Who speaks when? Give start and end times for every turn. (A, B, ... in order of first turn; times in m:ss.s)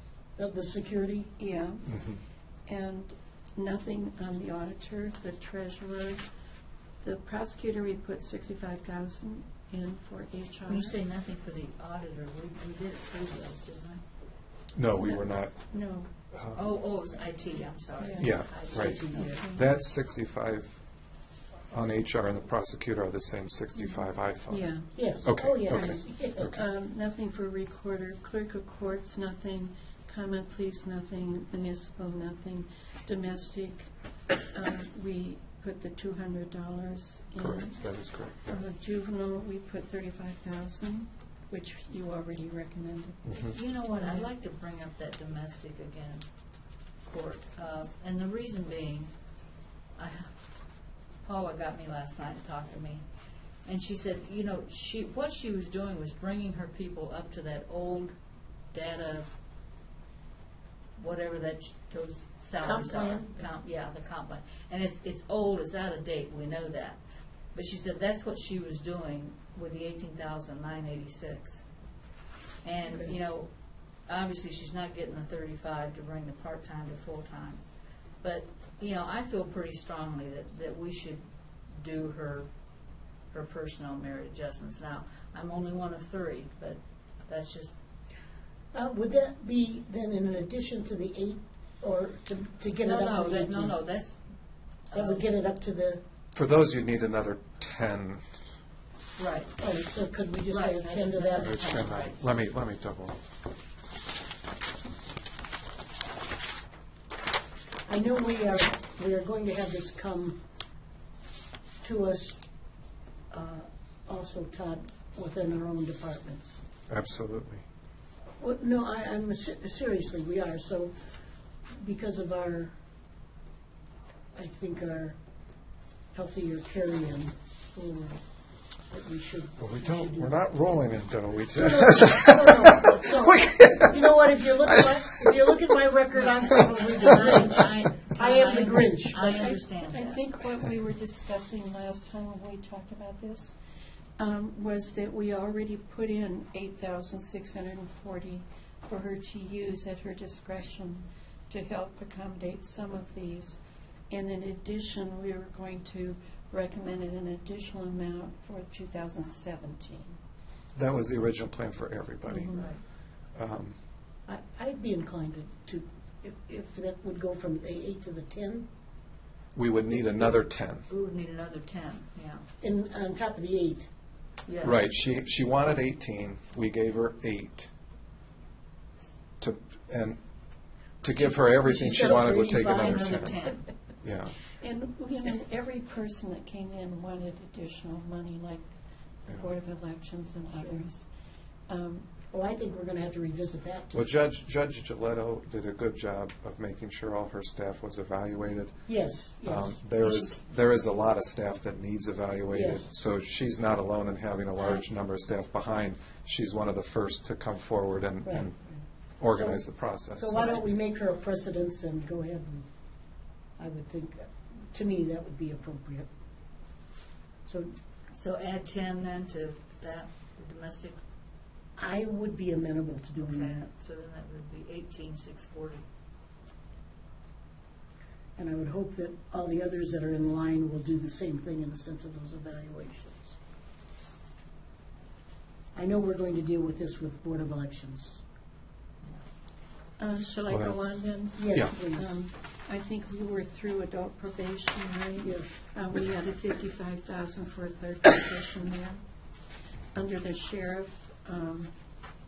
0:00.4-0:01.3 A
0:01.4-0:02.0 B
0:02.7-0:06.2 B
0:07.0-0:11.0 B
0:10.7-0:14.0 C
0:14.7-0:15.6 D
0:15.0-0:16.1 B
0:16.3-0:16.6 D
0:16.5-0:19.5 C
0:18.0-0:19.6 B
0:18.2-0:20.8 D
0:21.7-0:26.6 D
0:23.8-0:33.9 B
0:24.9-0:26.6 A
0:34.4-0:37.8 B
0:37.4-0:38.6 D
0:38.4-0:43.3 B
0:43.2-0:43.6 D
0:43.4-0:46.2 C
0:47.0-0:49.1 C
0:50.0-0:50.3 C
0:51.2-0:53.0 C
0:53.6-0:58.1 C
0:58.7-0:59.3 C
1:01.0-1:07.0 C
1:02.6-1:03.3 A
1:07.5-1:11.6 C
1:12.6-1:13.5 C
1:14.0-1:17.6 C
1:18.2-1:22.5 C
1:23.3-1:27.8 C
1:28.7-1:33.8 A
1:32.8-1:34.2 C
1:34.9-1:35.2 C
1:34.9-1:36.0 A
1:36.3-1:38.3 D
1:39.2-1:39.6 C
1:39.6-1:41.8 A
1:40.5-1:42.2 C
1:41.4-1:43.2 D
1:47.8-1:50.4 A
1:51.8-1:52.4 A
1:53.3-1:56.6 A
1:56.9-1:57.6 D
1:58.4-2:01.0 A
2:01.7-2:02.7 A
2:04.3-2:05.2 A
2:06.1-2:08.2 A
2:08.9-2:10.3 A
2:09.6-2:14.0 D
2:11.6-2:19.5 A
2:14.7-2:15.5 D
2:16.2-2:20.2 C
2:19.2-2:23.6 B
2:24.2-2:40.2 B
2:40.8-2:42.8 D
2:42.2-2:42.7 B
2:42.5-2:42.8 C
2:43.3-2:43.8 D
2:44.2-2:48.6 A
2:49.5-2:50.9 D
2:50.9-2:52.4 C
2:52.6-2:53.9 A
2:54.5-2:54.8 C
2:54.6-2:57.7 D
2:59.4-3:00.2 D
3:01.0-3:03.4 D
3:01.6-3:03.5 A
3:02.8-3:03.6 C
3:04.0-3:04.4 D
3:04.6-3:08.7 B
3:09.2-3:11.1 B
3:11.7-3:12.1 B
3:12.3-3:14.1 A
3:13.9-3:30.6 D
3:18.8-3:19.8 A
3:22.5-3:22.9 A
3:24.6-3:24.8 C
3:28.2-3:32.7 A
3:33.6-3:36.1 A
3:37.4-3:37.7 A
3:38.1-3:41.0 C
3:41.8-3:43.7 A
3:43.2-3:45.8 C
3:48.4-3:53.3 A
3:55.7-3:58.2 A
4:00.0-4:09.0 B
4:00.5-4:01.7 D
4:01.4-4:02.2 A
4:05.2-4:05.6 A
4:09.9-4:11.7 B